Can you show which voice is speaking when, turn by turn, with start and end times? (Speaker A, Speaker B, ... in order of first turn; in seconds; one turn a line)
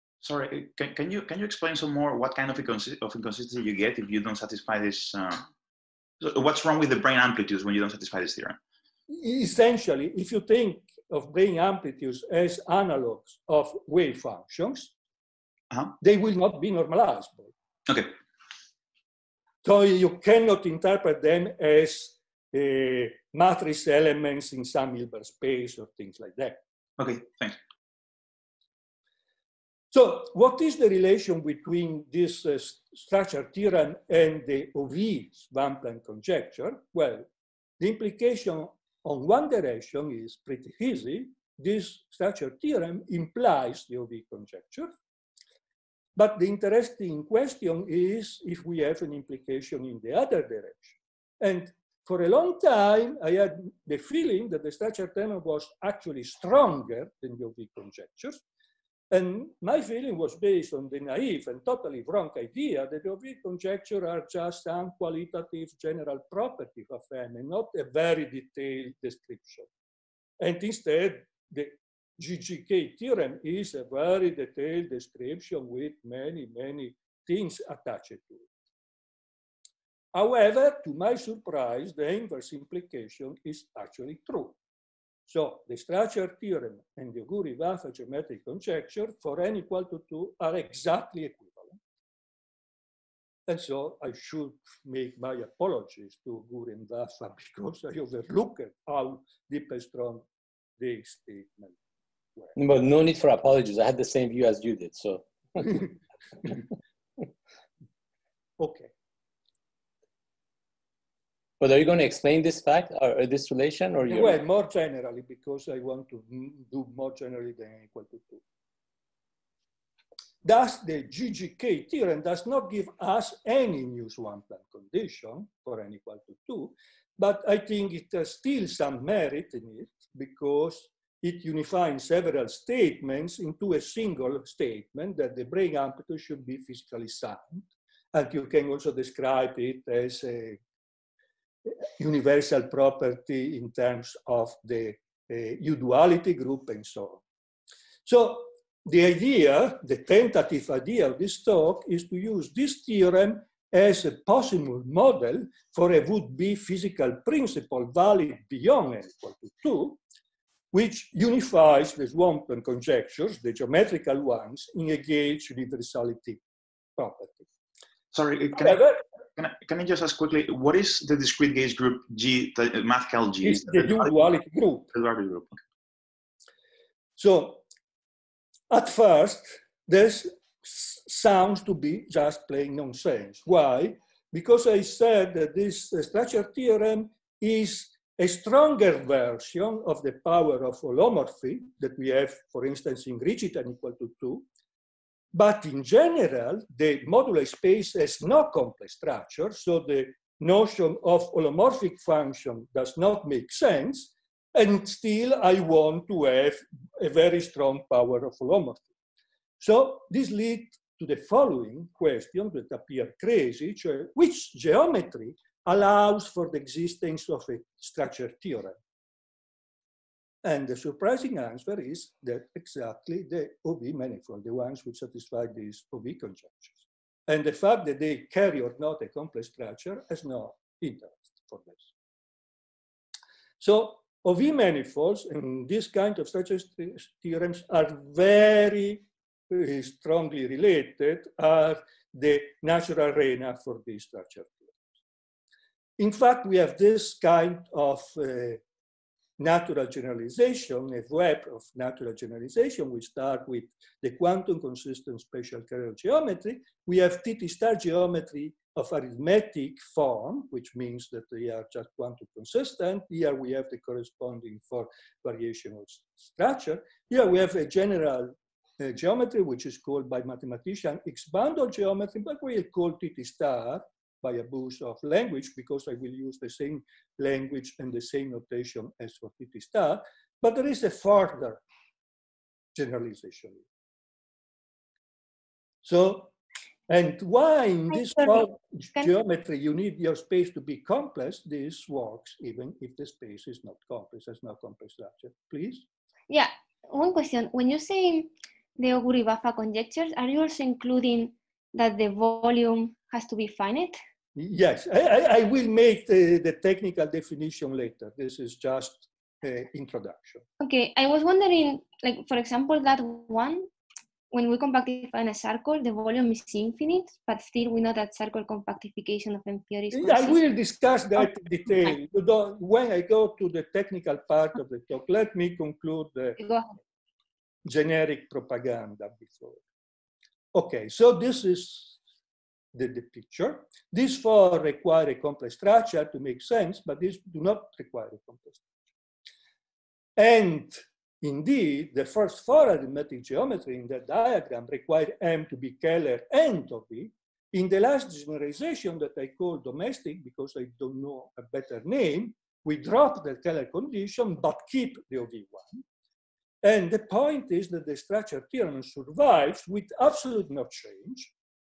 Speaker A: 0.2-5.5
Speaker A: 6.2-8.6
Speaker B: 9.1-14.9
Speaker B: 16.0-17.5
Speaker A: 17.9-18.1
Speaker B: 19.6-26.6
Speaker A: 27.0-27.6
Speaker B: 29.9-37.3
Speaker B: 37.8-44.9
Speaker B: 46.1-58.4
Speaker B: 59.1-69.7
Speaker B: 70.4-78.5
Speaker B: 80.1-84.6
Speaker B: 85.3-91.8
Speaker B: 93.5-100.3
Speaker B: 100.8-101.8
Speaker C: 102.6-105.9
Speaker B: 108.6-108.9
Speaker C: 111.6-114.4
Speaker B: 114.1-118.4
Speaker B: 120.4-140.6
Speaker B: 141.7-147.2
Speaker B: 148.1-160.0
Speaker B: 160.7-166.4
Speaker B: 167.0-167.5
Speaker A: 168.1-174.3
Speaker B: 168.6-169.0
Speaker B: 173.4-174.9
Speaker A: 174.9-175.6
Speaker B: 177.2-177.6
Speaker B: 178.7-194.5
Speaker B: 195.3-208.9
Speaker B: 209.6-218.8
Speaker B: 220.4-231.9
Speaker B: 233.6-244.8
Speaker B: 246.0-248.6
Speaker B: 249.4-281.6
Speaker B: 282.7-283.6
Speaker B: 285.8-286.4
Speaker B: 286.9-295.9
Speaker D: 287.9-289.1
Speaker D: 296.3-304.0
Speaker B: 304.4-310.4
Speaker D: 310.6-313.7
Speaker D: 314.3-320.4
Speaker B: 319.9-326.4
Speaker D: 321.2-321.9
Speaker D: 326.4-326.8
Speaker B: 327.6-329.6
Speaker B: 330.5-332.0
Speaker B: 332.7-338.7
Speaker B: 340.2-355.9
Speaker B: 356.6-361.3